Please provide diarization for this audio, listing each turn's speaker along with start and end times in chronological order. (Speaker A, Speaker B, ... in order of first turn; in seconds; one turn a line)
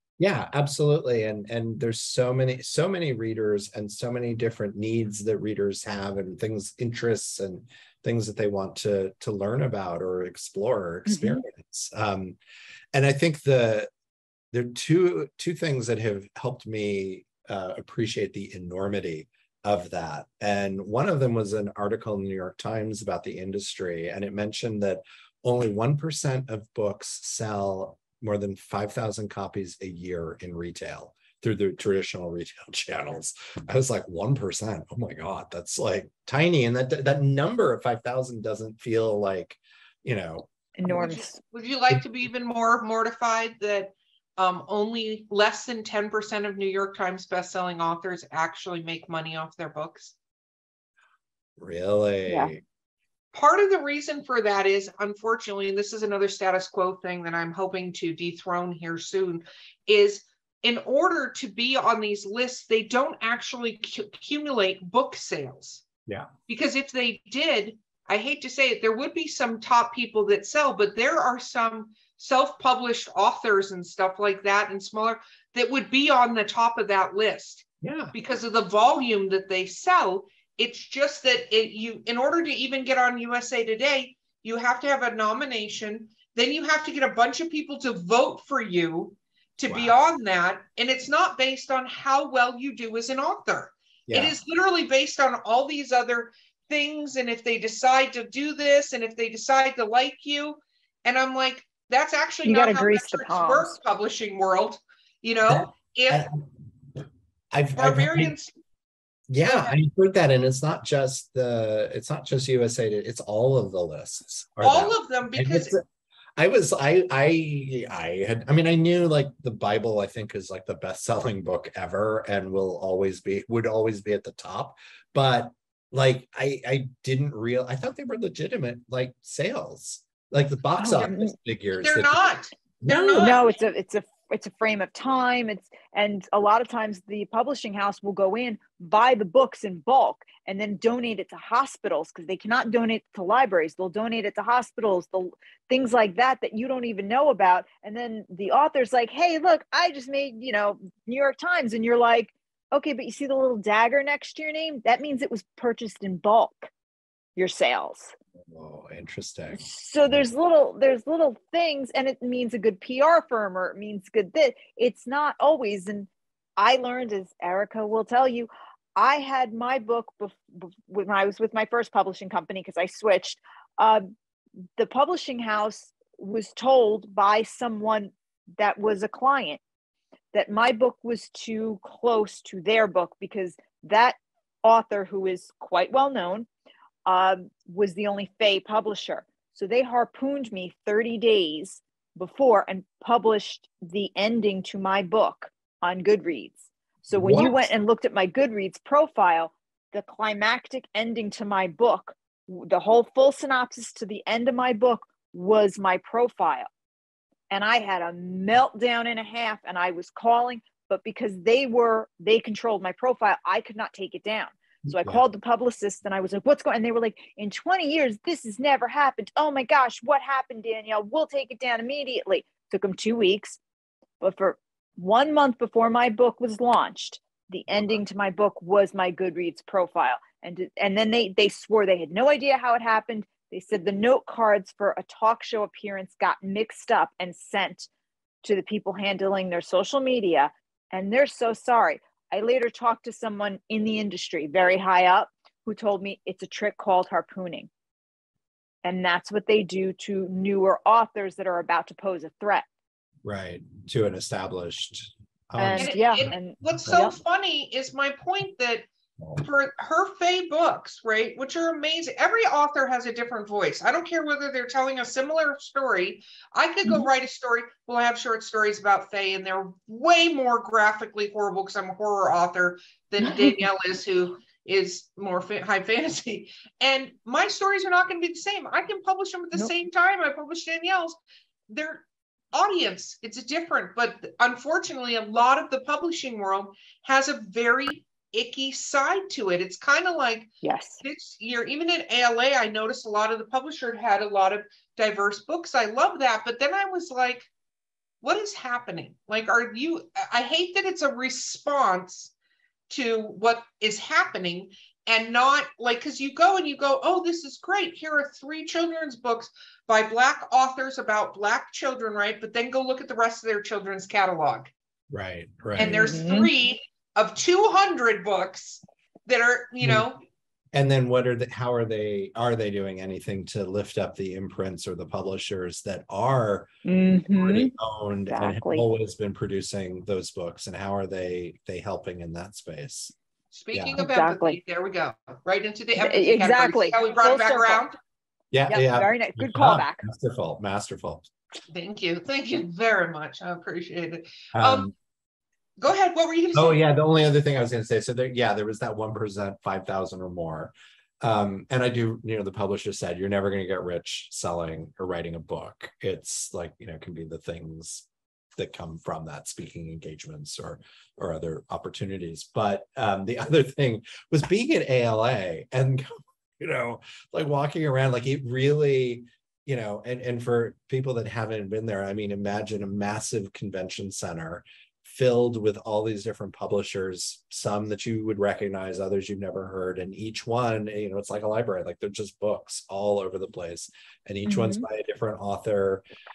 Speaker A: 0.2-12.4
Speaker B: 11.1-11.4
Speaker A: 12.9-13.9
Speaker A: 14.5-40.5
Speaker B: 40.8-41.4
Speaker C: 41.0-50.1
Speaker A: 51.6-52.6
Speaker B: 52.3-52.5
Speaker C: 53.3-65.8
Speaker C: 66.5-106.3
Speaker A: 77.8-78.1
Speaker A: 89.7-90.0
Speaker A: 94.1-94.4
Speaker B: 102.5-103.8
Speaker A: 105.5-106.4
Speaker A: 107.5-108.3
Speaker C: 107.8-108.5
Speaker A: 109.3-115.8
Speaker C: 109.4-109.8
Speaker C: 114.6-115.7
Speaker A: 116.4-132.2
Speaker B: 130.8-131.3
Speaker C: 131.8-133.5
Speaker A: 132.8-133.4
Speaker B: 133.2-156.7
Speaker B: 157.4-158.1
Speaker A: 158.5-160.2
Speaker B: 159.5-174.1
Speaker B: 174.8-179.6
Speaker B: 180.3-186.5
Speaker B: 187.1-206.7
Speaker A: 197.1-197.6
Speaker B: 207.5-223.6
Speaker B: 224.2-237.9
Speaker B: 238.4-247.7
Speaker B: 248.8-252.7
Speaker A: 253.2-256.3
Speaker B: 255.6-257.1
Speaker C: 255.8-290.5
Speaker B: 273.2-273.6
Speaker B: 290.6-291.0
Speaker C: 291.0-297.5
Speaker C: 298.2-302.3
Speaker C: 302.9-314.7
Speaker A: 315.1-316.1
Speaker B: 315.8-316.5
Speaker C: 315.8-320.2
Speaker A: 319.8-320.1
Speaker A: 320.7-326.7
Speaker B: 326.9-327.7
Speaker A: 327.3-333.1
Speaker B: 328.3-328.9
Speaker C: 333.5-338.0
Speaker A: 333.7-334.0
Speaker B: 334.0-334.6
Speaker B: 336.0-337.8
Speaker A: 338.5-341.3
Speaker B: 338.7-340.0
Speaker C: 341.7-344.9
Speaker A: 344.6-344.9
Speaker C: 345.8-346.8
Speaker A: 346.5-386.0
Speaker B: 384.5-384.9